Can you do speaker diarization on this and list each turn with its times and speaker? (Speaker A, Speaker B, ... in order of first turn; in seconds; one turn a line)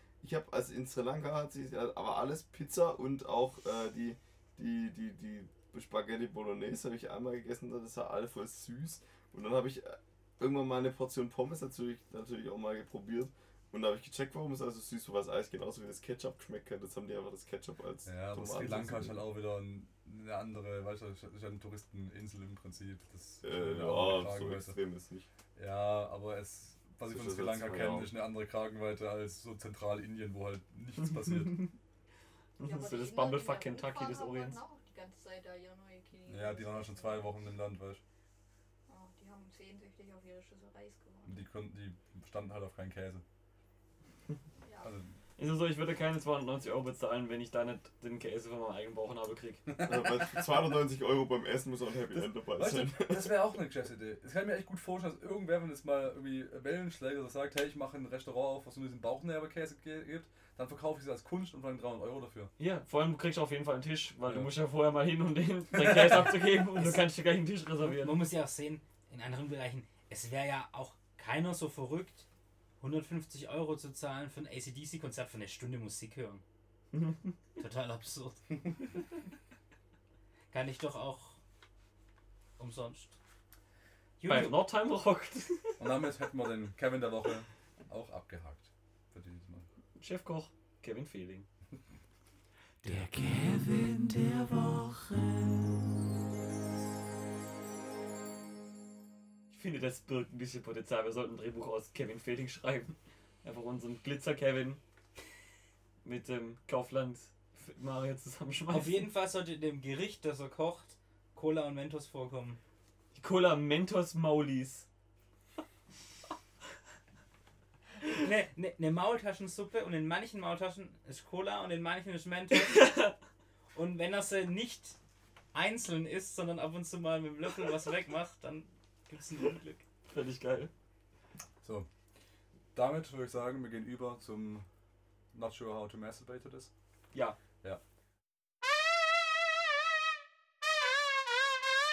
Speaker A: 0.2-19.2
Speaker B: 18.1-24.8
Speaker A: 23.4-25.3
Speaker B: 25.6-31.7
Speaker A: 27.1-28.1
Speaker C: 32.6-34.6
Speaker D: 32.6-37.3
Speaker B: 36.3-38.0
Speaker D: 38.9-41.5
Speaker B: 41.3-43.2
Speaker D: 44.6-44.9
Speaker B: 44.8-45.2
Speaker C: 45.4-49.7
Speaker B: 49.7-50.5
Speaker A: 49.8-53.4
Speaker B: 52.1-62.5
Speaker C: 62.6-68.2
Speaker B: 65.8-66.3
Speaker E: 67.8-72.3
Speaker E: 72.8-76.4
Speaker C: 76.9-77.3
Speaker E: 77.6-78.6
Speaker E: 80.5-81.4
Speaker E: 82.6-83.2
Speaker E: 84.2-84.6
Speaker C: 84.3-85.8
Speaker B: 85.8-89.7
Speaker C: 90.0-91.5
Speaker F: 92.8-95.7
Speaker C: 99.5-104.8
Speaker C: 106.0-109.1
Speaker E: 108.7-112.6
Speaker C: 113.1-114.9
Speaker E: 118.1-123.0
Speaker C: 122.7-123.1
Speaker E: 123.7-125.0
Speaker E: 125.5-129.8
Speaker C: 130.1-130.7
Speaker B: 131.6-131.9
Speaker B: 132.8-134.7
Speaker B: 135.3-136.7
Speaker C: 137.1-137.4